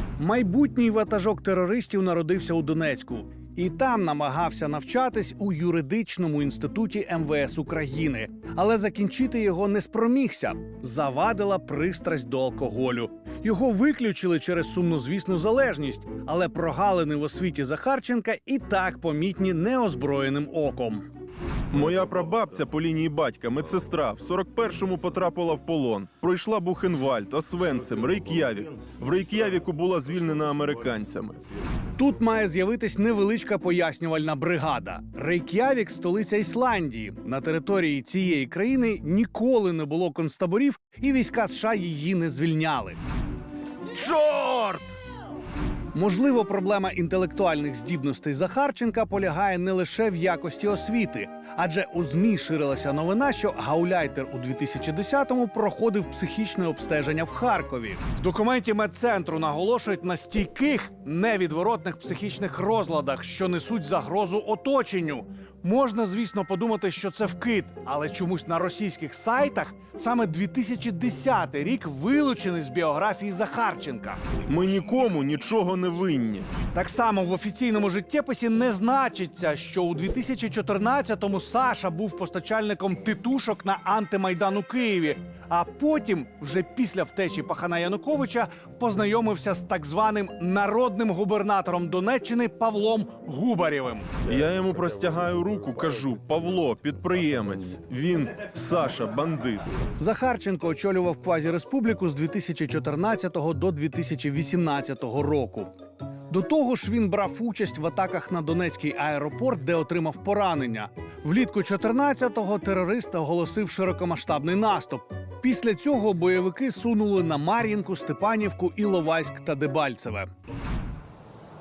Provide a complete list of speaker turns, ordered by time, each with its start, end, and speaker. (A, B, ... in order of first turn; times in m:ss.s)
0:00.2-0:21.1 A
0:21.7-0:31.4 B
0:32.0-0:43.0 A
0:43.9-0:45.0 A
0:45.9-1:14.2 A
1:14.4-1:16.5 B
1:16.7-1:34.1 A
1:34.2-1:39.6 B
1:40.0-1:45.7 A
1:46.3-2:00.3 A